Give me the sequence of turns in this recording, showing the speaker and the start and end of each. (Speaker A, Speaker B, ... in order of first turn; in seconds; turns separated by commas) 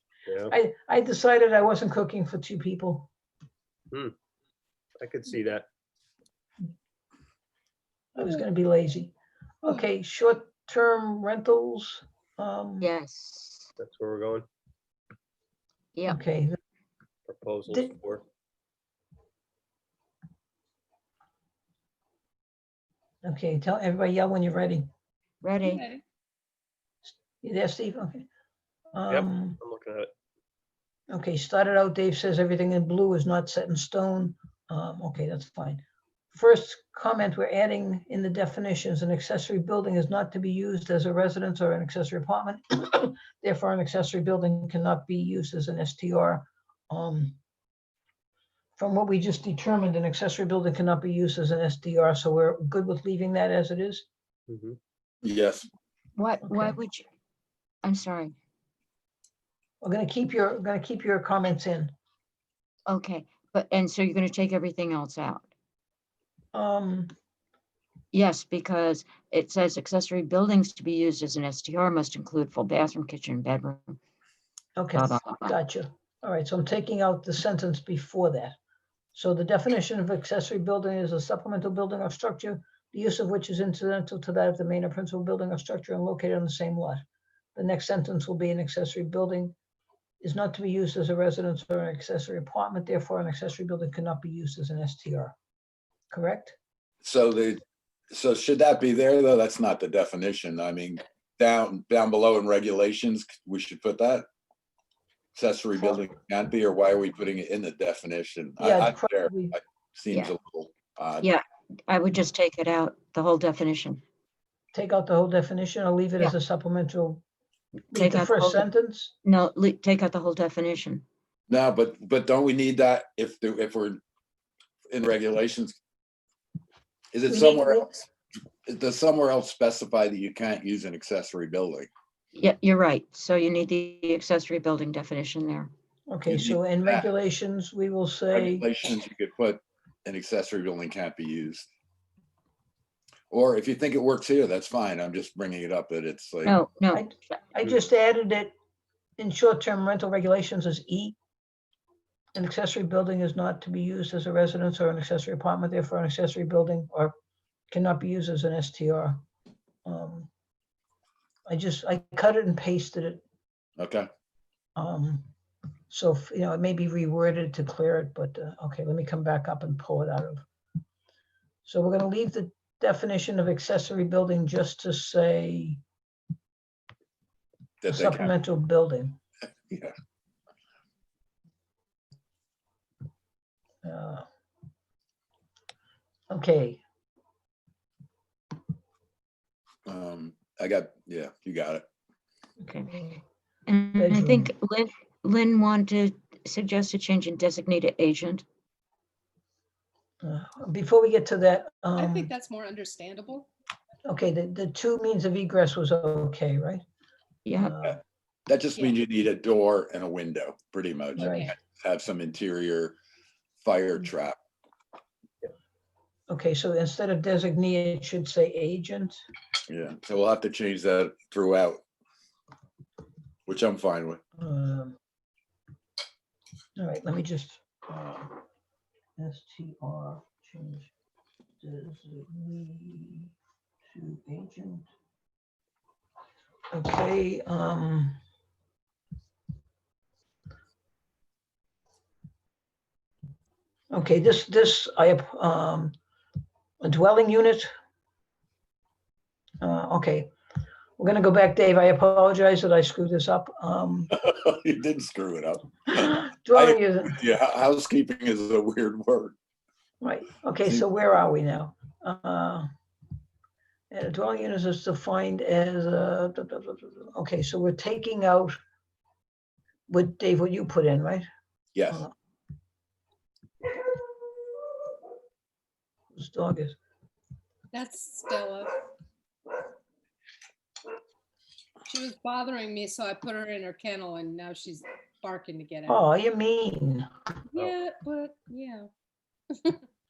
Speaker A: 0.2-0.5, Speaker B: 0.5-3.1, Speaker A: 5.0-5.7, Speaker B: 8.2-12.9, Speaker C: 13.0-13.7, Speaker A: 13.8-14.5, Speaker B: 16.1-16.6, Speaker A: 17.3-18.2, Speaker B: 17.7-17.9, Speaker B: 23.2-24.9, Speaker C: 25.4-25.9, Speaker D: 25.6-26.0, Speaker B: 27.1-28.3, Speaker B: 28.9-29.6, Speaker A: 29.1-30.1, Speaker B: 31.1-47.4, Speaker B: 48.8-54.0, Speaker A: 54.5-54.8, Speaker E: 55.2-55.7, Speaker C: 56.2-57.0, Speaker B: 56.5-56.8, Speaker C: 57.8-58.3, Speaker B: 59.8-61.9, Speaker C: 62.9-65.5, Speaker B: 66.5-67.1, Speaker C: 68.1-74.0, Speaker B: 74.8-78.6, Speaker C: 75.0-75.6, Speaker B: 79.2-87.0, Speaker B: 87.5-89.5, Speaker B: 90.2-95.3, Speaker B: 96.1-96.6, Speaker E: 97.0-97.6, Speaker E: 98.1-104.3, Speaker E: 105.3-111.3, Speaker B: 108.6-109.6, Speaker C: 111.2-114.0, Speaker B: 114.7-117.2, Speaker B: 117.9-119.2, Speaker C: 117.9-118.7, Speaker C: 119.2-121.0, Speaker E: 121.5-124.0, Speaker E: 124.9-125.8, Speaker E: 127.1-128.0, Speaker B: 127.3-128.0, Speaker E: 128.7-131.9, Speaker C: 132.3-135.7, Speaker B: 136.1-138.7, Speaker E: 136.3-137.1, Speaker E: 138.3-141.7, Speaker E: 143.3-146.6, Speaker C: 146.4-147.0, Speaker B: 146.9-148.5, Speaker B: 149.2-151.2, Speaker B: 152.3-157.1, Speaker B: 157.7-159.2, Speaker B: 159.8-160.3, Speaker B: 161.5-163.2, Speaker E: 163.8-164.1, Speaker B: 164.8-165.3, Speaker B: 165.9-170.4, Speaker B: 171.6-175.8, Speaker E: 177.8-178.3, Speaker B: 177.9-179.2, Speaker B: 183.8-184.2, Speaker B: 186.3-186.8, Speaker E: 189.8-191.8, Speaker B: 192.7-193.2, Speaker C: 193.7-198.4, Speaker B: 193.9-194.5, Speaker B: 200.2-202.3, Speaker D: 202.0-203.5, Speaker B: 204.0-206.8, Speaker C: 207.4-207.8, Speaker B: 207.5-208.0, Speaker E: 208.5-212.9, Speaker B: 211.2-211.5, Speaker D: 211.2-211.5, Speaker E: 213.6-214.4, Speaker B: 216.3-219.2, Speaker E: 219.7-221.8, Speaker E: 223.5-224.2, Speaker B: 224.4-225.0, Speaker B: 226.8-228.4, Speaker B: 229.2-230.9, Speaker B: 231.6-233.3, Speaker B: 233.9-234.9, Speaker B: 236.7-238.2, Speaker B: 243.9-245.9, Speaker B: 246.8-247.7, Speaker B: 249.6-250.3, Speaker B: 251.0-254.1, Speaker E: 254.1-259.4, Speaker B: 255.9-257.2, Speaker B: 260.0-262.7, Speaker B: 263.9-268.6, Speaker B: 269.9-271.2, Speaker E: 271.8-272.0, Speaker B: 276.1-276.8, Speaker D: 277.7-278.8, Speaker D: 281.8-286.1, Speaker B: 285.9-287.1, Speaker D: 287.5-288.9, Speaker D: 289.6-289.8